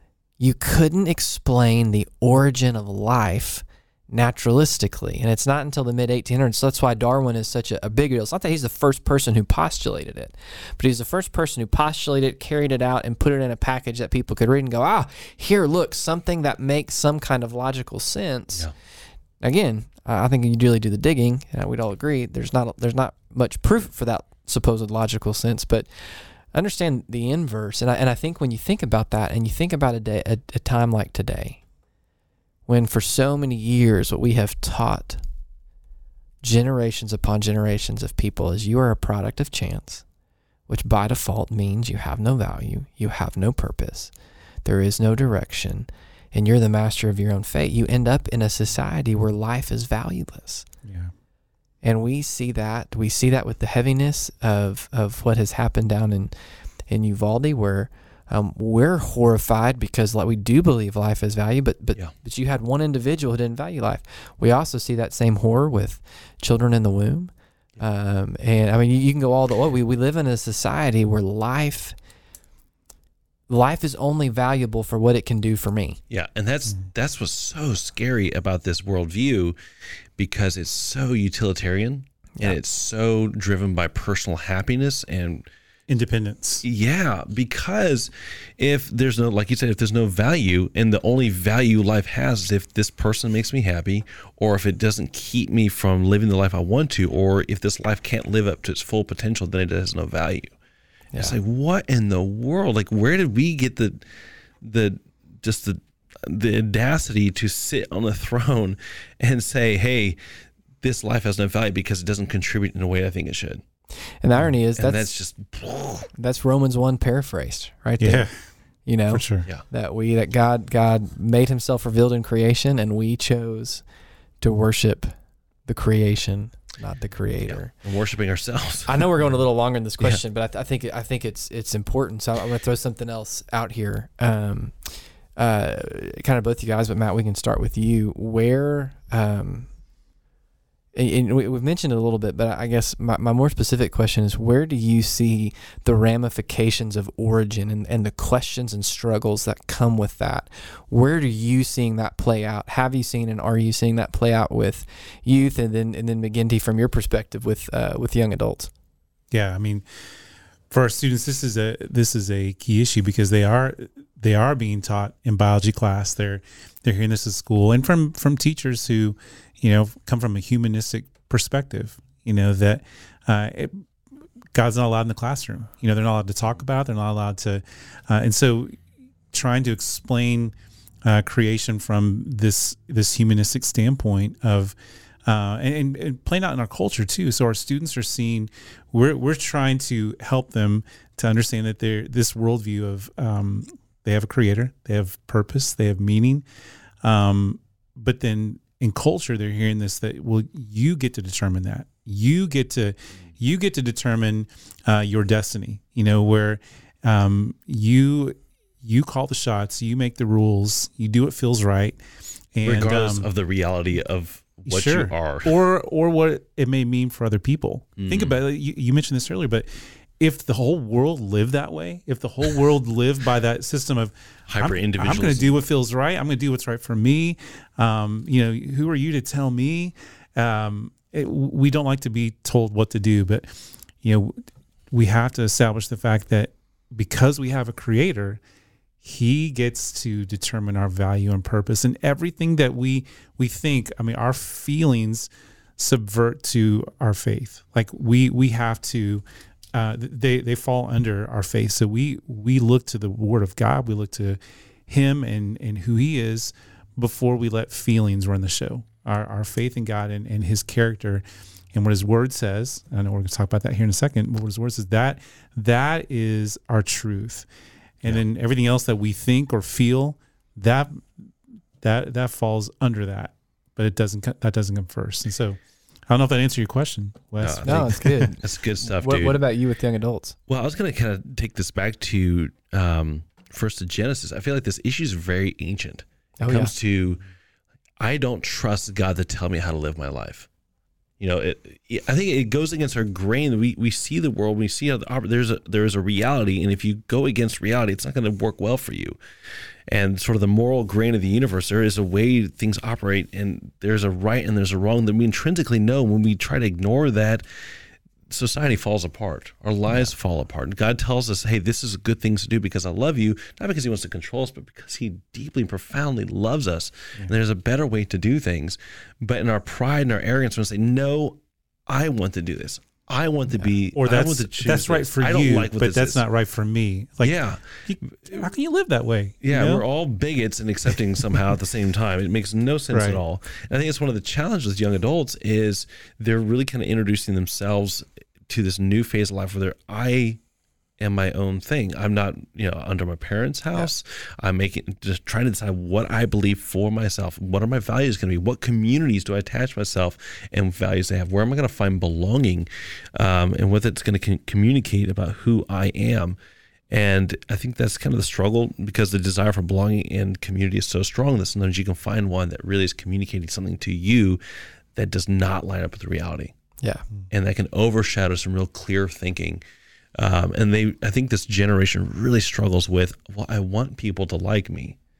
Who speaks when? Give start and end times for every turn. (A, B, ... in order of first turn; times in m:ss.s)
0:00.4-0:18.7 A
0:19.4-0:31.6 A
0:32.7-0:35.2 A
0:36.4-0:40.0 A
0:40.7-0:44.1 A
0:44.6-0:50.6 A
0:50.8-0:51.1 B
0:51.8-0:56.3 A
0:56.9-1:11.9 A
1:13.5-1:16.0 A
1:16.1-1:19.6 C
1:20.2-1:25.5 C
1:25.9-1:26.6 B
1:26.6-1:40.5 C
1:41.1-1:44.0 C
1:44.6-1:50.2 C
1:50.8-1:53.6 C
1:54.2-1:55.1 A
1:54.8-1:56.1 C
1:56.2-1:58.3 A
1:58.0-1:58.3 B
1:58.8-2:03.8 A
1:59.1-1:59.4 B
2:04.4-2:05.1 A
2:05.6-2:07.7 A
2:07.4-2:09.1 C
2:08.9-2:19.7 A
2:20.9-2:38.7 A
2:39.3-2:39.8 B
2:40.7-2:53.8 B
2:54.5-2:58.7 B
2:59.3-3:00.5 B
3:01.0-3:04.7 B
3:05.2-3:16.4 B
3:17.0-3:32.0 B
3:32.5-3:33.3 B
3:32.6-3:35.6 C
3:34.7-3:39.7 B
3:38.0-3:38.4 C
3:40.2-3:53.5 B
3:44.5-3:45.6 C
3:54.0-3:54.3 B
3:54.9-3:58.4 B
3:59.0-4:09.2 B
4:09.7-4:27.4 B
4:28.0-4:31.0 B
4:31.8-4:38.3 B
4:37.4-4:39.4 C
4:37.6-4:40.4 A
4:40.5-4:47.2 C
4:46.4-4:46.7 A
4:48.0-4:50.5 C
4:51.2-4:59.2 C
4:59.9-5:07.4 C
5:08.3-5:26.2 C
5:23.9-5:29.8 B
5:27.2-5:28.5 C
5:29.4-5:40.4 C
5:32.9-5:33.2 B
5:41.0-5:56.4 C
5:56.9-6:04.4 C
6:04.9-6:06.5 C
6:07.3-6:09.6 C
6:10.2-6:15.0 C